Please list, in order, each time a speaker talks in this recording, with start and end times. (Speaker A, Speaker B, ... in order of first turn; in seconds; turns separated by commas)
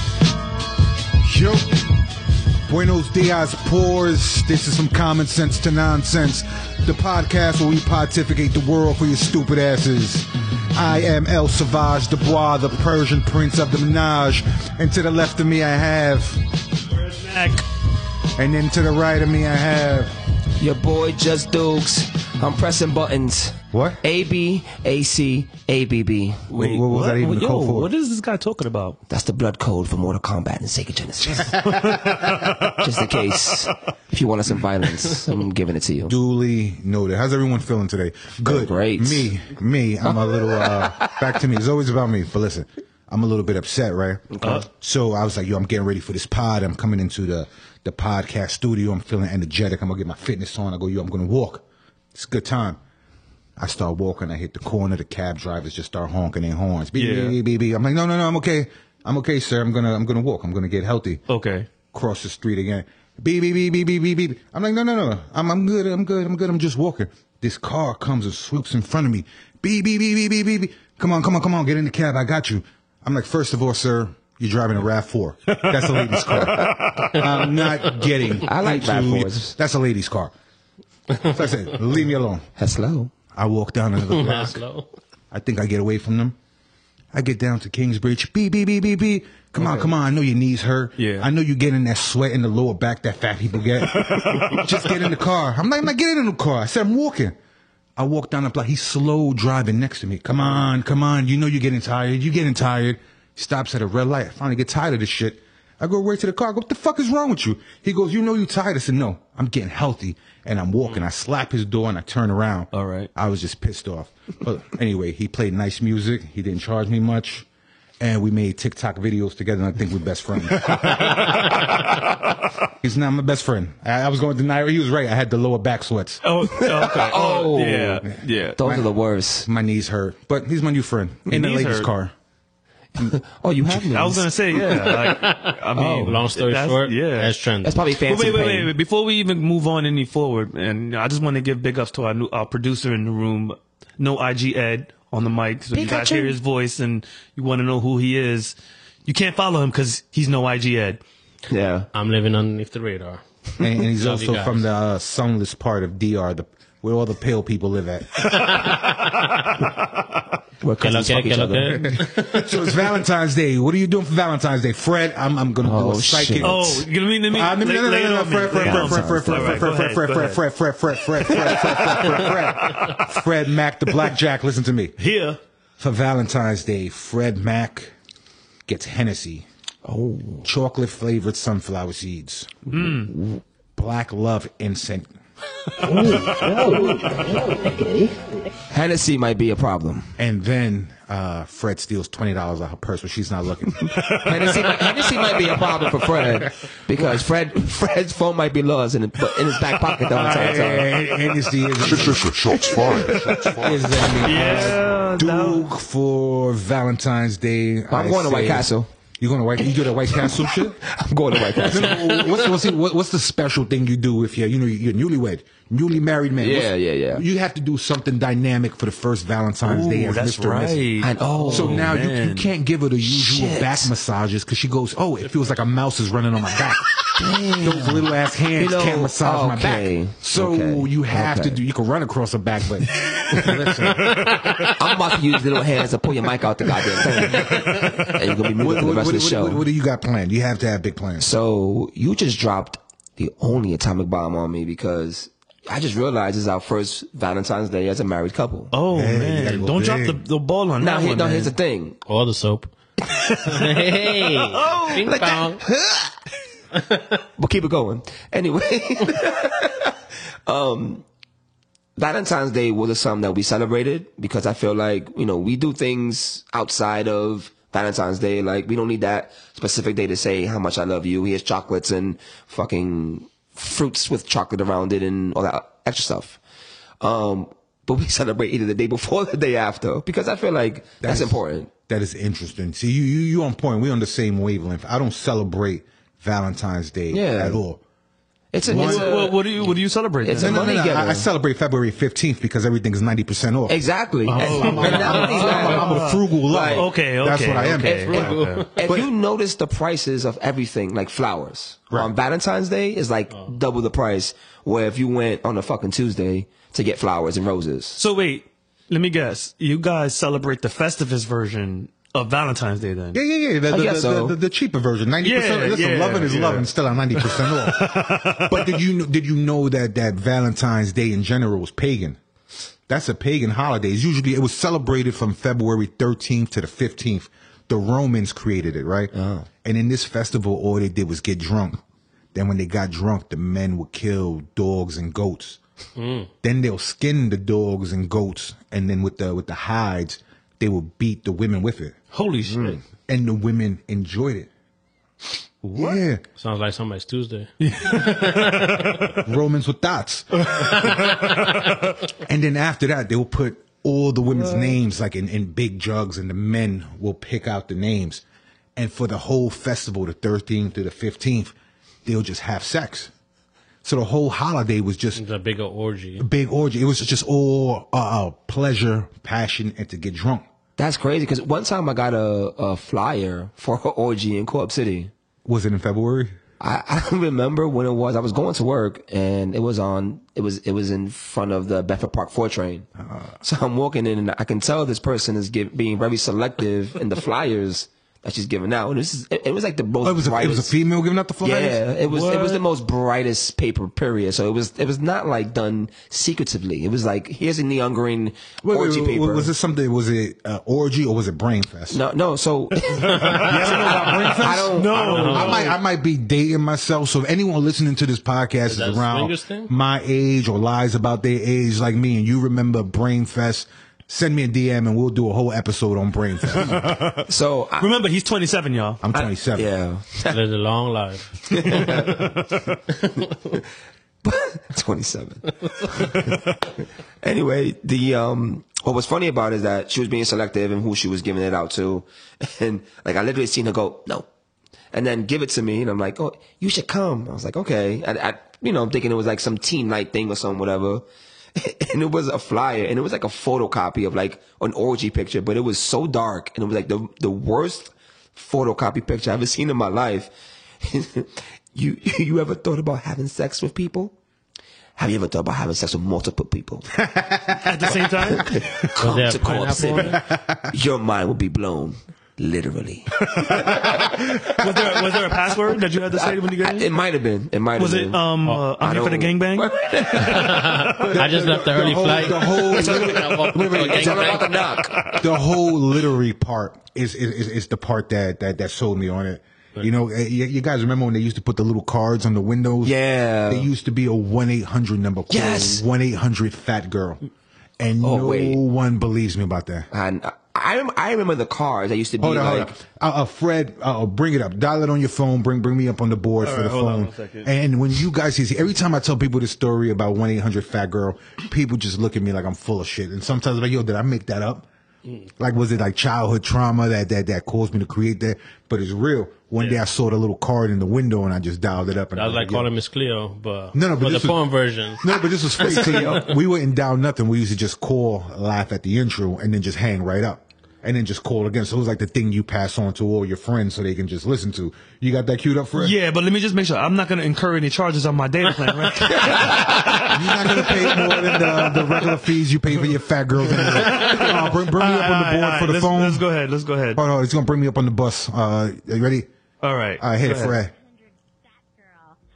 Speaker A: 1.2-1.9, Speaker A: 2.6-16.5, Speaker B: 16.9-17.6, Speaker A: 18.3-20.1, Speaker C: 20.6-26.6, Speaker A: 23.7-24.0, Speaker A: 26.5-27.9, Speaker B: 26.5-29.0, Speaker C: 29.1-31.6, Speaker B: 31.6-33.0, Speaker C: 32.7-36.1, Speaker A: 36.1-52.8, Speaker C: 38.4-39.3, Speaker C: 40.5-41.1, Speaker A: 53.6-61.2, Speaker B: 56.9-57.4, Speaker B: 61.3-61.7, Speaker A: 61.9-80.3, Speaker B: 75.5-77.2, Speaker C: 76.5-76.7, Speaker C: 78.4-79.5, Speaker A: 81.2-82.5, Speaker C: 82.6-83.1, Speaker A: 83.3-84.6, Speaker D: 84.1-84.8, Speaker A: 85.3-86.3, Speaker A: 87.1-97.3, Speaker B: 91.0-91.3, Speaker B: 94.1-94.6, Speaker A: 98.0-117.5, Speaker B: 112.7-113.1, Speaker A: 118.0-121.5, Speaker B: 120.6-121.4, Speaker A: 122.7-126.2, Speaker B: 126.2-128.6, Speaker C: 126.5-128.0, Speaker C: 128.6-129.5, Speaker A: 128.6-128.9, Speaker A: 129.4-132.1, Speaker B: 131.3-131.9, Speaker C: 133.0-134.9, Speaker B: 133.9-137.3, Speaker D: 134.8-137.8, Speaker C: 135.8-136.1, Speaker C: 137.6-138.7, Speaker B: 138.1-151.0, Speaker C: 145.7-146.3, Speaker C: 151.5-151.9, Speaker D: 151.9-154.6, Speaker A: 153.6-158.7, Speaker D: 158.3-159.7, Speaker C: 160.6-161.9, Speaker D: 160.8-162.5, Speaker A: 161.9-175.0, Speaker C: 165.6-166.6, Speaker B: 166.4-170.4, Speaker C: 168.6-169.7, Speaker B: 171.3-173.0, Speaker B: 175.0-175.4, Speaker A: 175.8-177.9, Speaker A: 178.7-179.5, Speaker C: 179.8-180.4, Speaker A: 180.4-182.7, Speaker B: 182.7-183.1, Speaker C: 183.1-183.4, Speaker A: 183.8-185.1, Speaker C: 185.8-188.1, Speaker B: 185.9-187.1, Speaker C: 188.7-190.1, Speaker A: 190.2-193.8, Speaker B: 193.9-195.4, Speaker C: 194.2-200.9, Speaker A: 200.1-202.3, Speaker E: 201.7-204.2, Speaker A: 203.5-210.8, Speaker B: 204.2-205.7, Speaker C: 207.9-208.9, Speaker C: 210.2-212.1, Speaker A: 211.6-220.9, Speaker D: 211.9-212.4, Speaker C: 216.4-217.2, Speaker B: 219.6-222.5, Speaker C: 221.0-221.9, Speaker A: 221.5-234.3, Speaker C: 223.0-223.9, Speaker C: 227.2-228.0, Speaker C: 228.6-231.6, Speaker D: 234.1-234.7, Speaker C: 234.8-239.6, Speaker A: 238.6-241.3, Speaker C: 241.2-248.7, Speaker B: 248.7-251.5, Speaker A: 248.9-250.2, Speaker C: 250.8-252.0, Speaker D: 252.1-252.7, Speaker B: 253.1-255.0, Speaker D: 253.4-255.6, Speaker C: 255.0-255.6, Speaker D: 256.8-257.2, Speaker C: 257.4-261.1, Speaker C: 262.0-276.4, Speaker C: 277.0-281.7, Speaker A: 281.0-287.8, Speaker C: 287.1-287.6, Speaker C: 288.5-289.4, Speaker A: 288.6-289.2, Speaker B: 288.7-290.6, Speaker C: 290.2-291.3, Speaker A: 290.4-293.8, Speaker C: 293.7-295.9, Speaker B: 294.3-298.7, Speaker A: 294.4-298.3, Speaker D: 294.4-295.7, Speaker C: 296.5-296.9, Speaker C: 297.8-308.0, Speaker D: 298.1-298.7, Speaker A: 298.9-299.1, Speaker B: 308.0-313.2, Speaker A: 313.1-322.2, Speaker C: 313.7-314.4, Speaker B: 315.2-318.8, Speaker A: 322.9-331.8, Speaker C: 329.1-329.5, Speaker A: 332.3-335.6, Speaker D: 336.0-336.3, Speaker A: 336.4-342.0, Speaker B: 342.1-342.8, Speaker A: 343.1-344.5, Speaker B: 345.6-346.0, Speaker A: 345.7-346.2, Speaker D: 346.3-349.1, Speaker B: 347.6-349.1, Speaker A: 349.2-350.4, Speaker B: 350.4-351.8, Speaker A: 352.2-358.2, Speaker A: 358.8-363.1, Speaker A: 363.8-365.2, Speaker D: 365.1-366.2, Speaker A: 366.2-370.4, Speaker C: 370.8-375.1, Speaker A: 375.4-376.4, Speaker C: 376.6-382.9, Speaker A: 383.0-383.3, Speaker C: 383.4-390.7, Speaker A: 390.0-391.8, Speaker C: 391.4-399.5, Speaker B: 392.1-392.6, Speaker A: 398.6-402.0, Speaker C: 401.9-405.4, Speaker B: 403.0-405.8, Speaker A: 403.3-416.8, Speaker D: 404.9-405.6, Speaker D: 408.7-409.7, Speaker B: 416.6-419.0, Speaker C: 417.2-417.9, Speaker A: 419.0-419.7, Speaker C: 419.1-420.4, Speaker D: 420.2-422.3, Speaker C: 421.5-422.2, Speaker B: 422.2-422.7, Speaker C: 424.2-434.3, Speaker C: 434.9-441.0, Speaker C: 441.6-454.1, Speaker C: 454.9-456.9, Speaker A: 457.0-457.6, Speaker B: 457.6-458.5, Speaker C: 458.3-460.1, Speaker D: 459.0-460.2, Speaker B: 459.4-460.1, Speaker A: 460.2-460.7, Speaker C: 460.7-463.8, Speaker B: 463.3-466.9, Speaker A: 463.5-464.8, Speaker C: 466.1-468.2, Speaker B: 467.8-471.1, Speaker C: 468.8-470.7, Speaker D: 470.2-474.5, Speaker A: 471.1-474.5, Speaker C: 472.7-475.0, Speaker A: 475.2-487.2, Speaker C: 482.8-483.7, Speaker C: 485.3-485.8, Speaker A: 487.8-489.9, Speaker C: 488.0-488.6, Speaker C: 489.9-492.8, Speaker A: 492.2-504.7, Speaker B: 496.4-497.5, Speaker A: 505.4-512.7, Speaker D: 512.1-516.2, Speaker A: 513.7-514.4, Speaker A: 515.0-526.0, Speaker C: 515.7-516.2, Speaker B: 525.7-532.1, Speaker C: 529.4-529.6, Speaker A: 529.9-536.3, Speaker B: 533.5-537.0, Speaker A: 536.9-539.3, Speaker B: 539.6-540.6, Speaker A: 540.0-540.7